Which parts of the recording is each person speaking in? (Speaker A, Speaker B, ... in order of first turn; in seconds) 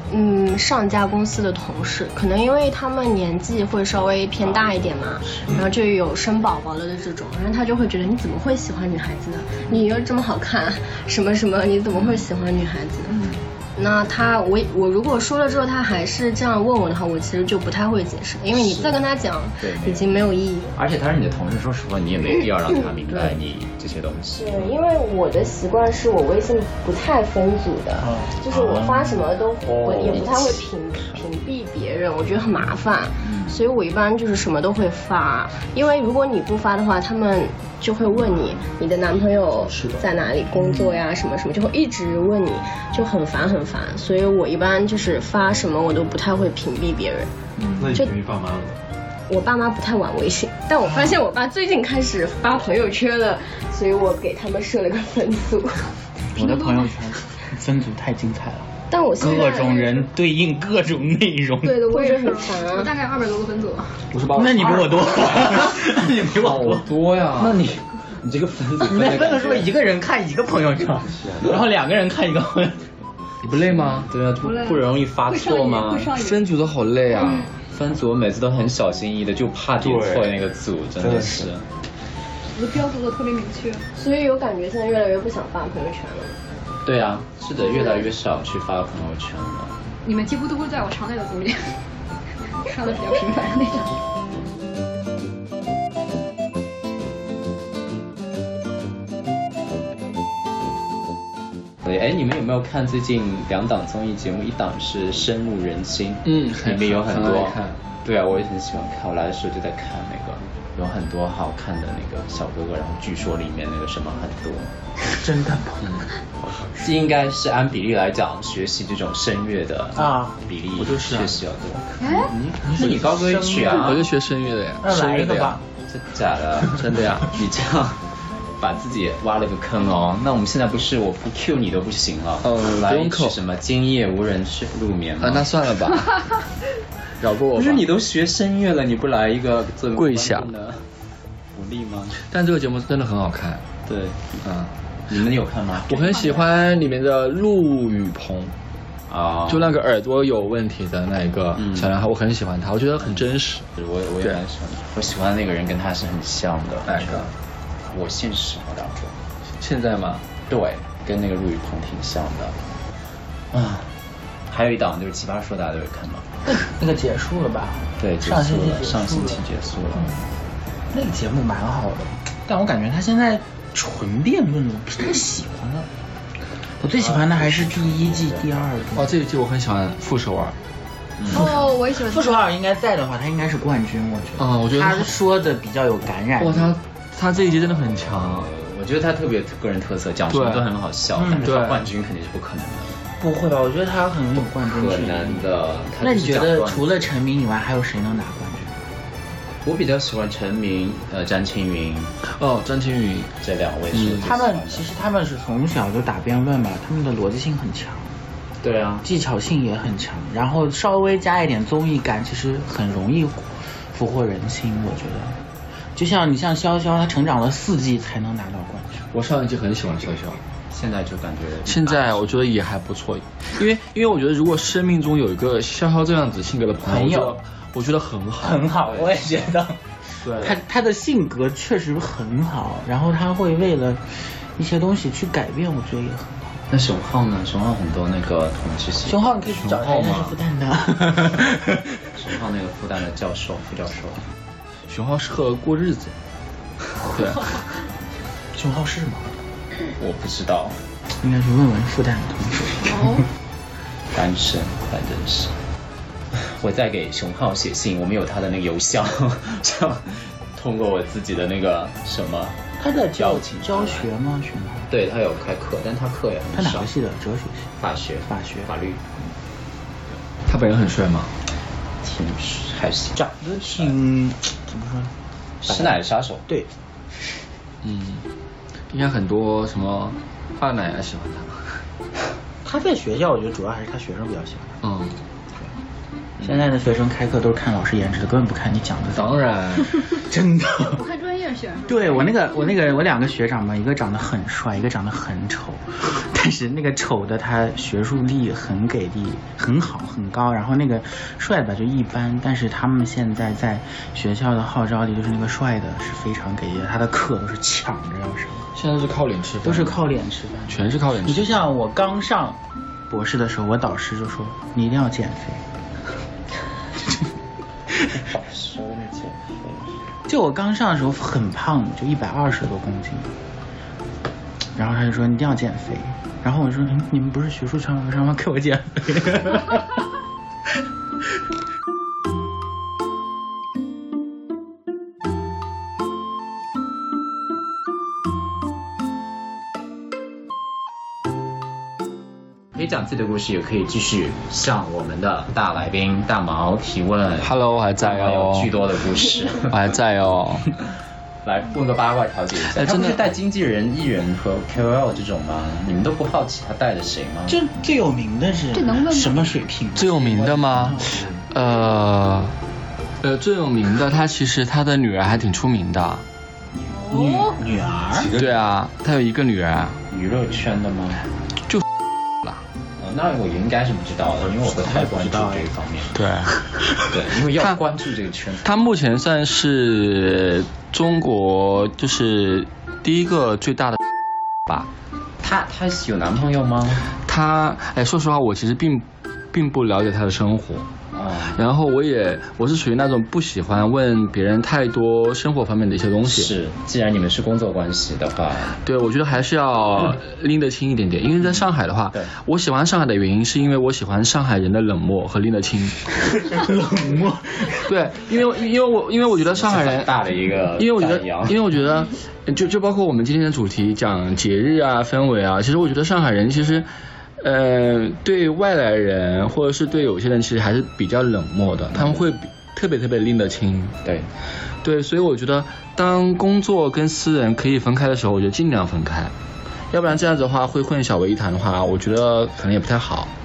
Speaker A: 0.1-13.2, 13.8-20.7, 24.3-47.3, 49.3-55.9, 58.9-59.9, 61.8-62.9, 77.2-77.5, 83.9-86.3, 87.7-88.0
Speaker B: 4.4-5.6, 11.9-12.2, 18.5-19.1, 19.6-24.8, 28.5-28.9, 29.9-30.6, 68.2-69.7, 74.0-76.1, 77.7-81.6, 86.8-89.8, 101.8-114.7, 116.8-124.0, 125.8-128.0, 128.6-135.5, 137.5-140.8, 141.5-142.2, 143.8-144.4, 145.1-146.1, 149.1-149.7, 151.6-151.9, 153.8-157.3, 157.8-159.1, 160.5-162.6, 163.5-163.9, 164.5-166.3, 168.0-170.2, 176.9-178.6, 181.2-181.5, 187.4-193.0, 194.6-197.1, 199.6-202.1, 203.4-204.9, 208.6-209.0, 220.7-222.2, 236.7-239.3, 242.1-244.2, 250.0-250.8, 254.1-255.5, 256.3-262.6, 263.2-264.1, 264.9-266.9, 267.8-269.2, 272.0-273.9, 275.6-276.4, 286.4-286.6, 318.3-320.0, 342.7-349.9, 351.4-357.6, 370.1-371.2, 373.0-376.1, 377.0-378.8, 385.4-387.1, 391.1-391.6, 396.2-398.8, 409.5-411.6, 421.9-422.2, 424.0-424.3
Speaker C: 28.0-28.9, 50.9-51.1, 56.3-61.9, 64.2-67.8, 68.8-72.9, 115.2-116.0, 119.9-121.2, 122.1-124.0, 124.8-125.6, 166.4-169.4, 169.9-170.2, 170.9-175.9, 176.8-179.1, 181.3-186.8, 191.2-191.6, 193.2-198.8, 204.2-208.1, 209.0-215.4, 215.9-219.0, 226.8-227.4, 228.4-236.6, 239.0-241.8, 248.5-249.4, 251.2-253.2, 262.8-264.9, 266.5-267.7, 268.2-268.7, 273.1-275.1, 275.6-276.7, 282.6-284.8, 286.4-291.0, 291.9-308.7, 309.6-315.6, 320.2-323.3, 324.7-330.0, 357.5-361.2, 366.8-368.3, 374.9-375.7, 406.3-407.9
Speaker D: 47.8-48.8, 71.2-71.6, 79.8-81.5, 116.4-117.0, 361.1-361.3, 368.1-368.6, 374.6-375.5
Speaker E: 56.3-57.1, 59.2-60.0, 61.6-64.0, 74.4-76.4, 82.5-83.8, 90.0-91.8, 92.6-93.9, 122.0-122.3, 146.0-146.4, 181.3-182.5, 252.8-253.2, 290.9-292.3, 358.7-359.6, 366.9-367.6
Speaker F: 64.1-65.7, 66.3-67.6, 73.4-74.1, 76.1-77.5, 106.2-107.8, 123.7-125.6, 126.8-127.3, 132.4-133.4, 135.2-136.2, 137.2-137.8, 139.9-140.5, 142.2-143.6, 144.4-144.7, 145.9-148.5, 149.5-153.7, 156.8-157.3, 159.5-160.2, 178.9-180.5, 184.4-185.1, 186.4-188.5, 190.3-190.7, 191.4-191.8, 202.2-203.3, 203.9-204.3, 219.1-220.4, 221.6-228.7, 230.2-230.6, 239.5-240.3, 244.9-246.1, 247.1-247.4, 270.4-271.3, 277.8-278.2, 278.9-281.8, 284.8-285.1, 289.1-290.2, 308.7-310.0, 310.7-311.6, 347.4-348.7, 349.7-350.7, 352.6-353.2, 359.9-362.6, 363.2-366.2, 368.3-370.0, 376.1-376.6, 377.5-377.8, 378.6-384.0, 387.1-390.9, 391.5-396.5, 398.8-406.0, 407.8-410.2, 410.8-424.0, 424.8-429.3, 429.9-433.3